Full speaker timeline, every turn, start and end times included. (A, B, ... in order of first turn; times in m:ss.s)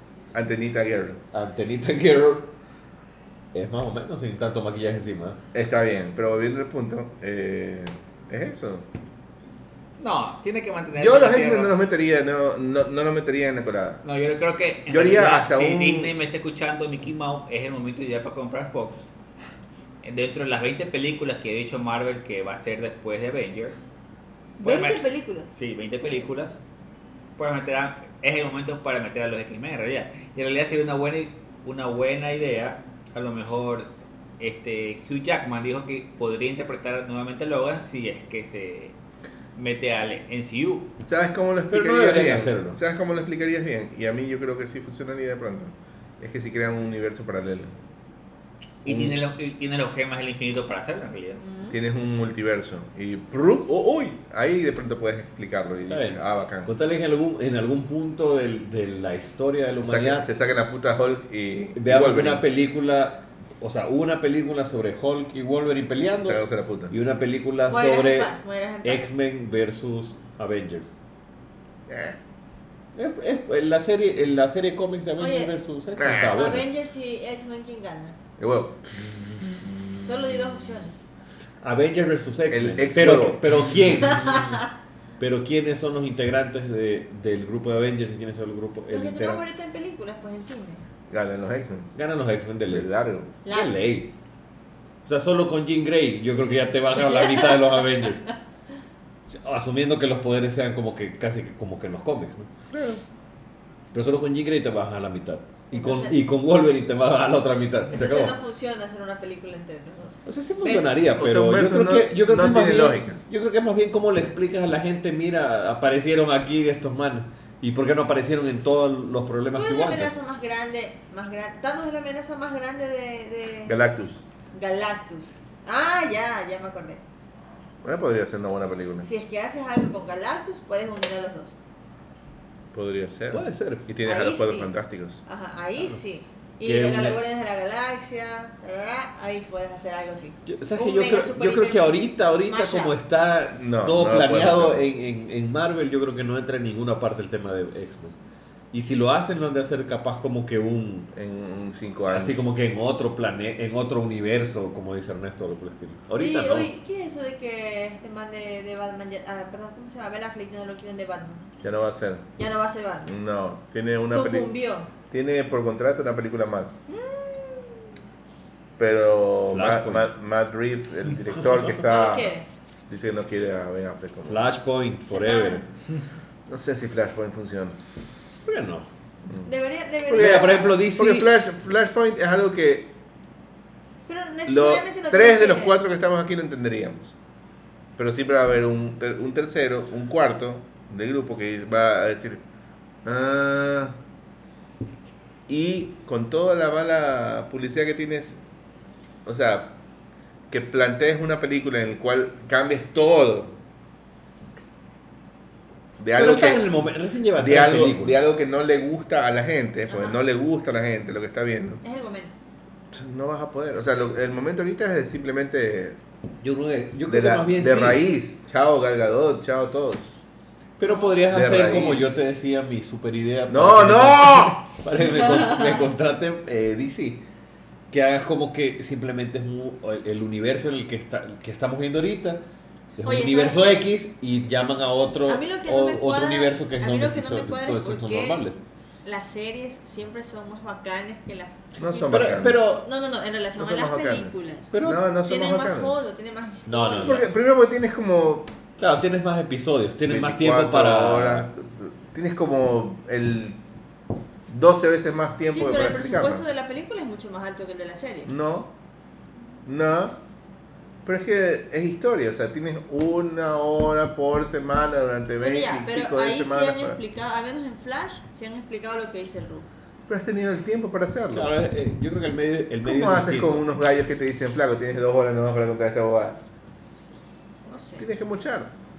0:00.3-0:01.2 A
0:01.3-0:02.5 B
0:03.5-0:05.4 B
0:05.5-0:08.9 A
0:10.0-0:11.7 C
0:11.0-0:14.0 A
0:14.0-0:19.0 C
0:14.9-0:16.1 A
0:20.0-0:23.8 C
0:24.6-0:25.5 D
0:24.6-0:26.6 C
0:27.4-0:39.0 C
0:39.6-0:40.9 C
0:41.0-0:47.8 A
0:41.7-0:42.8 B
0:48.8-0:51.4 C
0:48.9-0:49.2 A
0:51.4-0:51.8 D
0:51.7-0:56.7 A
0:55.9-1:00.3 B
0:59.8-1:02.4 A
1:01.8-1:10.9 B
1:06.2-1:07.0 A
1:07.7-1:09.1 D
1:11.9-1:12.2 A
1:13.0-1:16.7 B
1:15.2-1:15.5 D
1:16.0-1:16.4 A
1:16.3-1:18.2 D
1:18.4-1:19.0 A
1:20.0-1:21.0 D
1:21.6-1:24.6 B
1:22.5-1:23.8 A
1:24.1-1:24.6 D
1:25.2-1:29.4 B
1:28.9-1:30.8 D
1:31.1-1:31.9 A
1:32.0-1:32.9 B
1:32.7-1:33.3 A
1:33.4-1:33.8 D
1:33.4-1:34.1 B
1:35.0-1:38.2 B
1:37.0-1:38.1 D
1:39.3-1:42.5 B
1:42.7-1:43.0 A
1:43.9-1:48.4 B
1:45.7-1:46.2 D
1:47.9-1:50.9 D
1:50.2-2:00.2 B
1:51.0-1:53.2 A
1:59.5-2:03.7 D
2:03.7-2:04.2 A
2:04.5-2:07.0 D
2:07.8-2:09.1 A
2:09.0-2:11.6 D
2:12.7-2:15.2 A
2:13.3-2:13.9 B
2:14.0-2:14.7 D
2:15.2-2:23.0 D
2:16.6-2:17.2 B
2:20.5-2:28.2 B
2:23.6-2:24.8 A
2:28.7-2:31.1 B
2:31.1-2:32.4 A
2:32.1-2:36.7 B
2:36.2-2:41.5 D
2:41.6-2:42.3 A
2:42.4-2:43.2 D
2:43.0-2:44.5 A
2:44.1-2:44.9 D
2:45.1-2:46.8 A
2:46.9-2:47.8 D
2:48.8-2:52.3 A
2:49.5-2:50.1 B
2:51.4-2:51.6 B
2:51.8-2:52.5 D
2:52.9-2:54.4 A
2:54.3-2:55.7 B
2:55.1-2:55.6 D
2:56.5-2:57.8 A
2:58.4-2:58.9 B
2:59.4-3:00.8 D
3:00.1-3:03.0 A
3:00.1-3:01.3 B
3:04.1-3:05.8 D
3:04.5-3:07.2 A
3:08.0-3:12.4 A
3:13.0-3:13.9 A
3:15.5-3:18.4 A
3:19.2-3:19.7 A
3:20.5-3:23.6 A
3:26.0-3:26.7 A
3:26.1-3:28.2 B
3:27.4-3:31.8 A
3:29.9-3:30.2 D
3:31.8-3:32.3 D
3:32.9-3:36.0 A
3:36.4-3:38.0 B
3:37.1-3:40.2 A
3:40.8-3:47.2 B
3:40.9-3:41.2 D
3:41.3-3:42.1 A
3:43.5-3:44.6 A
3:45.0-3:45.8 D
3:47.9-3:52.4 B
3:53.0-3:58.6 B
3:53.0-3:53.9 D
3:55.3-3:58.4 D
3:59.0-4:04.7 D
4:01.8-4:02.6 A
4:02.1-4:02.9 B
4:03.6-4:05.9 A
4:04.7-4:05.0 B
4:05.2-4:07.3 D
4:06.7-4:07.2 B
4:07.0-4:08.5 A
4:08.8-4:11.5 B
4:10.1-4:13.6 A
4:14.5-4:16.4 A
4:15.5-4:18.3 D
4:18.3-4:18.7 A
4:19.6-4:20.2 A
4:21.0-4:27.0 A
4:25.4-4:29.7 D
4:30.1-4:31.5 A
4:31.3-4:33.8 B
4:32.8-4:36.4 A
4:37.7-4:38.1 D
4:38.0-4:38.7 A